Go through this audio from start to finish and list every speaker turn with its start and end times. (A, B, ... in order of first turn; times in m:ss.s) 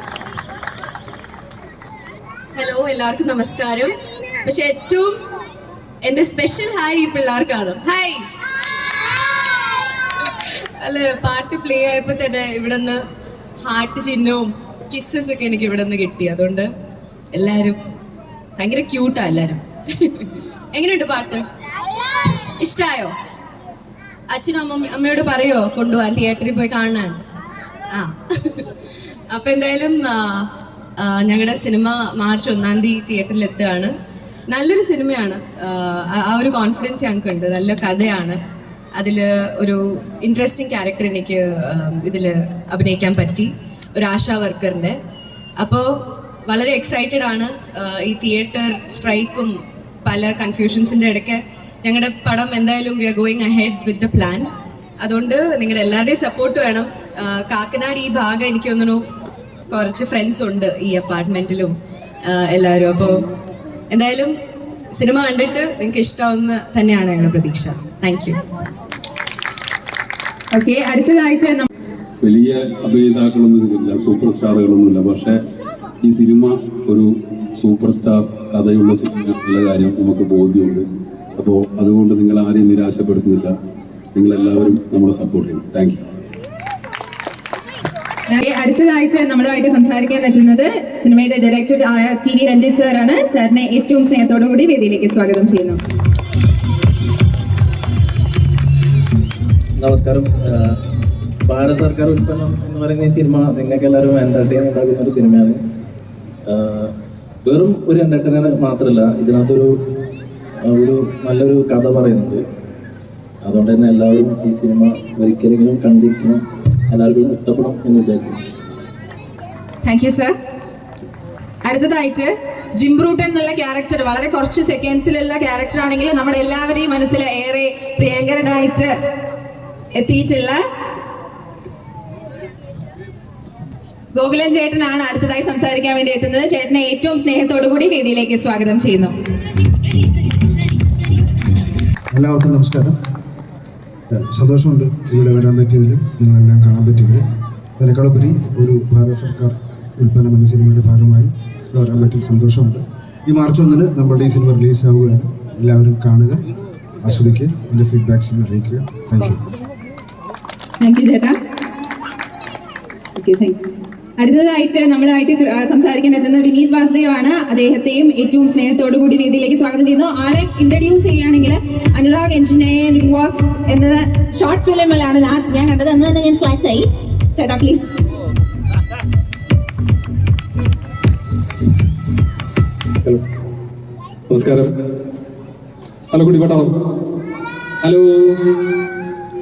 0:02.6-0:03.9 A
0:04.4-0:05.1 A
0:06.0-0:08.2 A
0:10.2-0:13.0 A
0:13.6-0:16.7 A
0:17.3-0:17.8 A
0:18.6-0:21.4 A
0:22.6-0:23.1 A
0:24.3-0:27.2 A
0:27.9-0:28.7 A
0:29.3-0:33.9 A
0:34.5-0:38.4 A
0:39.0-0:45.0 A
0:45.6-0:45.9 A
0:46.5-0:49.5 A
0:50.0-0:54.5 A
0:55.0-0:59.0 A
0:59.7-1:01.8 A
1:02.3-1:03.2 A
1:03.9-1:04.3 A
1:04.9-1:08.4 A
1:10.5-1:11.7 B
1:12.2-1:15.4 C
1:16.0-1:20.8 C
1:21.4-1:23.5 C
1:24.1-1:26.0 C
1:28.3-1:35.8 B
1:39.8-1:40.8 D
1:41.4-1:45.6 D
1:46.4-1:46.9 D
1:47.4-1:49.7 D
1:50.7-1:52.4 D
1:53.4-1:58.4 D
1:59.8-2:00.3 B
2:01.6-2:08.9 B
2:09.9-2:10.6 B
2:14.1-2:19.1 B
2:22.1-2:23.0 E
2:24.1-2:27.2 E
2:27.8-2:36.4 E
2:37.0-2:39.4 E
2:40.8-2:41.4 B
2:43.1-2:58.0 B
3:04.3-3:04.7 F
3:06.1-3:06.9 F
3:07.8-3:08.7 F